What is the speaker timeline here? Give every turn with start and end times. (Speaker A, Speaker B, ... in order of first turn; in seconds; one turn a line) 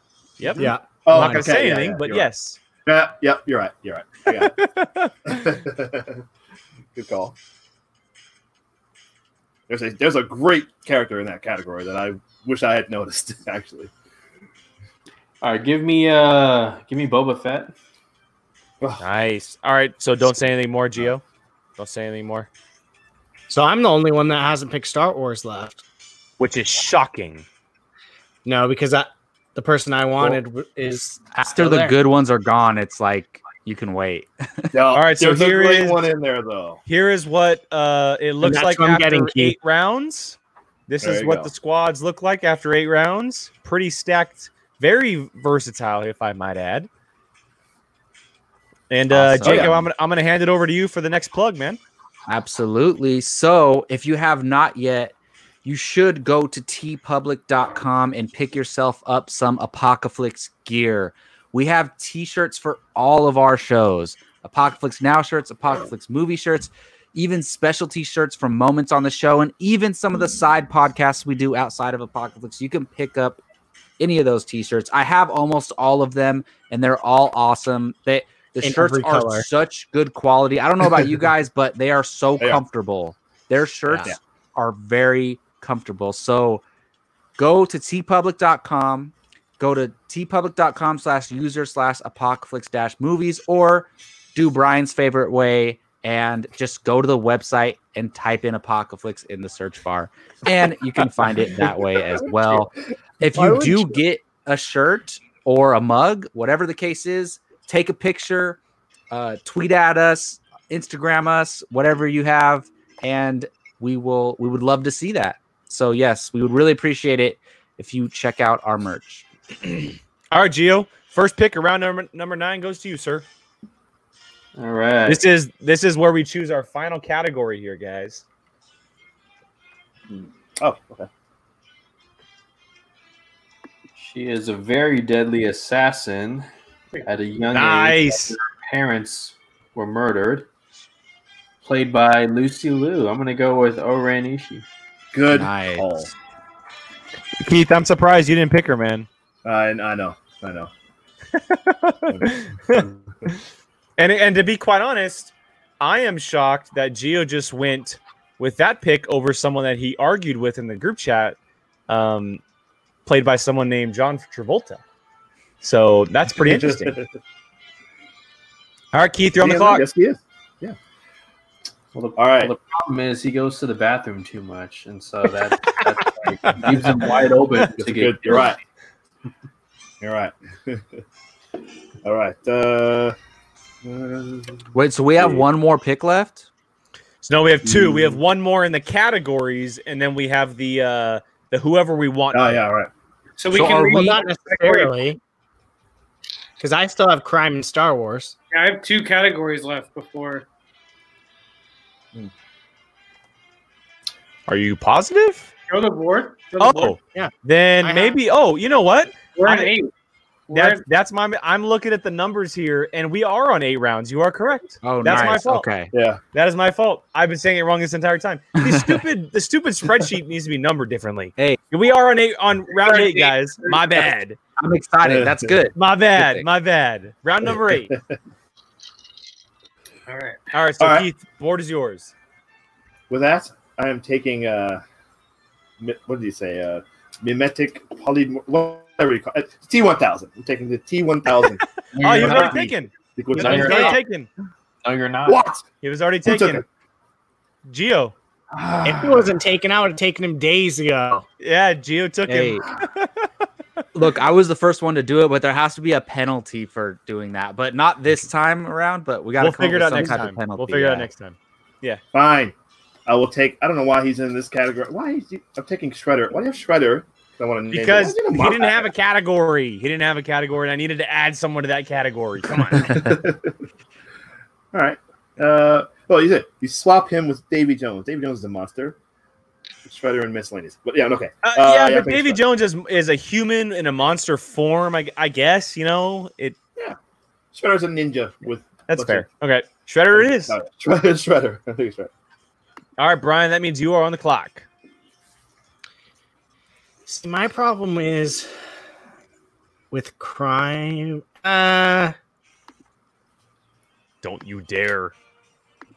Speaker A: 0.4-2.6
Speaker B: 0.4-2.3
Speaker C: 0.6-1.6
Speaker B: 2.9-4.6
Speaker A: 4.3-5.6
Speaker B: 5.3-6.2
Speaker B: 7.0-7.4
Speaker B: 9.7-13.9
Speaker D: 15.4-17.7
Speaker A: 19.0-21.2
Speaker A: 21.8-22.5
Speaker C: 23.5-25.8
Speaker A: 26.4-27.4
Speaker C: 28.4-32.0
Speaker E: 31.3-34.7
Speaker B: 34.7-36.8
Speaker A: 34.9-36.0
Speaker A: 36.9-46.9
Speaker C: 38.4-39.6
Speaker B: 41.0-41.5
Speaker A: 48.9-51.8
Speaker E: 49.1-49.9
Speaker B: 49.4-49.8
Speaker E: 52.3-73.4
Speaker E: 74.0-86.6
Speaker C: 78.6-79.5
Speaker E: 87.4-108.6
Speaker C: 103.2-104.0
Speaker E: 109.1-119.3
Speaker A: 120.3-123.3
Speaker D: 124.5-125.2
Speaker A: 125.1-128.2
Speaker B: 130.6-131.1
Speaker D: 133.9-136.5
Speaker D: 137.0-140.5
Speaker A: 137.5-138.3
Speaker D: 141.6-144.6
Speaker B: 145.1-146.1
Speaker E: 145.3-146.0
Speaker A: 147.4-149.1
Speaker B: 149.4-150.7
Speaker A: 151.4-153.4
Speaker B: 152.1-153.0
Speaker A: 154.0-161.4
Speaker A: 161.9-162.4
Speaker A: 163.1-164.8
Speaker A: 165.6-167.0
Speaker B: 166.4-167.1
Speaker A: 168.9-169.8
Speaker B: 169.4-170.8
Speaker D: 171.9-178.5
Speaker B: 172.2-172.5
Speaker B: 177.7-178.6
Speaker B: 180.0-181.0
Speaker B: 182.0-183.2
Speaker B: 183.8-185.4
Speaker E: 184.7-186.5
Speaker A: 187.2-192.6
Speaker B: 187.7-188.2
Speaker B: 192.3-192.9
Speaker F: 193.4-195.0
Speaker E: 193.5-194.2
Speaker C: 193.6-195.2
Speaker C: 196.6-198.4
Speaker F: 198.5-200.5
Speaker A: 204.5-205.5
Speaker F: 205.7-206.9
Speaker A: 206.6-209.7
Speaker C: 207.1-208.2
Speaker F: 209.3-209.9
Speaker F: 210.5-210.8
Speaker A: 210.5-215.7
Speaker E: 214.8-215.9
Speaker B: 215.9-216.2
Speaker A: 216.3-224.4
Speaker E: 218.6-218.9
Speaker F: 222.7-224.0
Speaker E: 224.6-226.4
Speaker B: 225.0-225.6
Speaker A: 225.8-227.9
Speaker F: 230.1-230.4
Speaker A: 230.5-232.1
Speaker B: 230.8-231.1
Speaker B: 233.1-234.8
Speaker B: 235.8-243.9
Speaker D: 241.9-242.6
Speaker A: 242.0-244.3
Speaker C: 243.4-243.9
Speaker D: 243.4-243.9
Speaker D: 244.8-245.5
Speaker B: 245.3-245.6
Speaker A: 245.8-246.6
Speaker B: 246.3-246.6
Speaker A: 247.6-248.1
Speaker B: 248.5-249.3
Speaker C: 248.8-251.3
Speaker A: 251.4-253.1
Speaker E: 252.3-252.7
Speaker E: 253.9-261.1
Speaker A: 259.4-262.0
Speaker B: 262.1-262.6
Speaker B: 263.1-268.9
Speaker A: 267.7-272.9
Speaker B: 272.7-273.6
Speaker B: 274.7-279.0
Speaker B: 279.9-282.4
Speaker A: 281.4-286.6
Speaker B: 287.5-289.2
Speaker A: 288.9-290.6
Speaker B: 290.1-292.1
Speaker A: 293.0-294.7
Speaker C: 297.1-298.5
Speaker C: 299.9-302.1
Speaker A: 304.2-305.1